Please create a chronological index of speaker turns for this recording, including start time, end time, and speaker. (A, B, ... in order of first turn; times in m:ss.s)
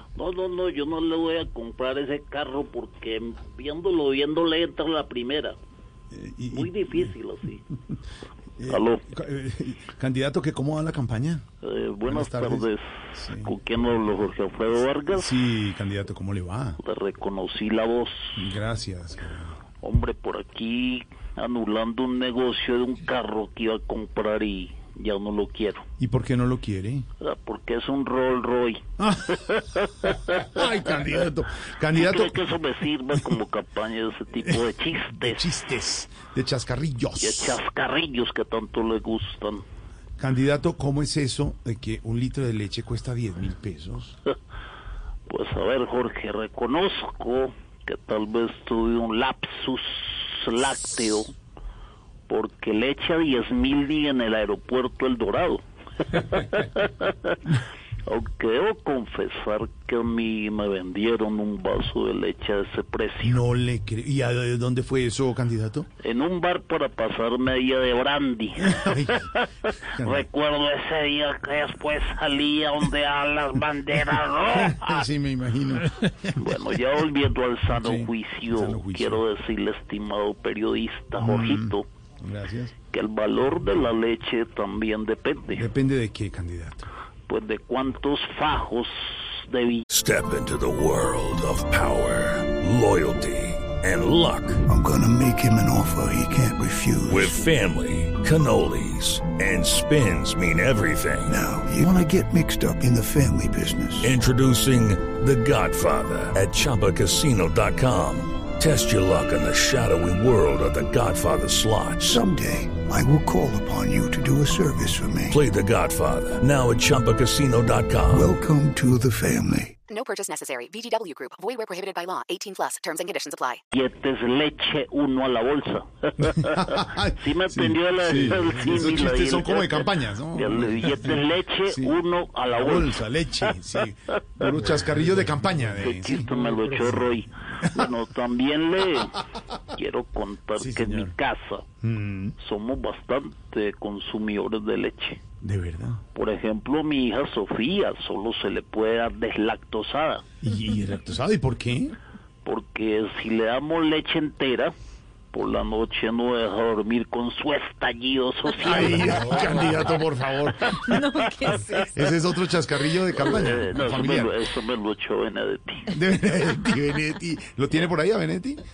0:00.2-0:05.6 A
0:06.1-0:07.1 B
0:06.5-0:07.6 A
0:08.6-0:11.4 B
0:08.7-0:09.0 A
0:11.6-0:15.3 A
0:12.1-0:13.5 B
0:15.1-0:16.8 B
0:16.8-0:18.4 A
0:18.4-0:19.5 B
0:19.8-0:25.8 A
0:26.0-0:27.1 B
0:27.2-0:28.8 A
0:29.0-0:29.5 B
0:29.4-0:30.6 A
0:30.4-0:32.4 B
0:31.9-0:35.4 A
0:34.4-0:34.6 B
0:35.2-0:37.6 B
0:37.2-0:39.6 A
0:40.2-0:44.2 B
0:45.3-0:51.3 A
0:52.3-0:57.4 A
0:58.1-1:03.4 A
1:03.2-1:05.9 B
1:06.0-1:09.4 A
1:08.6-1:09.3 B
1:09.9-1:10.3 B
1:10.0-1:15.1 A
1:14.5-1:16.4 B
1:16.4-1:21.8 A
1:17.7-1:19.2 B
1:21.2-1:22.7 B
1:22.9-1:25.6 A
1:25.6-1:26.9 B
1:27.3-1:29.8 A
1:29.9-1:34.6 C
1:34.6-1:37.4 D
1:37.1-1:41.4 C
1:41.3-1:44.1 D
1:44.0-1:52.2 C
1:52.0-1:55.4 D
1:55.3-1:58.3 C
1:58.1-1:59.8 D
1:59.9-2:03.6 E
2:03.7-2:13.0 A
2:06.5-2:17.0 B
2:14.4-2:14.9 A
2:15.8-2:19.2 A
2:19.7-2:21.6 A
2:20.6-2:21.1 B
2:21.8-2:22.4 B
2:22.4-2:25.2 A
2:25.4-2:26.0 B
2:26.1-2:30.2 A
2:30.4-2:32.0 B
2:32.4-2:34.7 A
2:35.3-2:40.0 A
2:38.6-2:44.3 B
2:40.6-2:41.8 A
2:43.1-2:45.9 A
2:45.9-2:48.6 B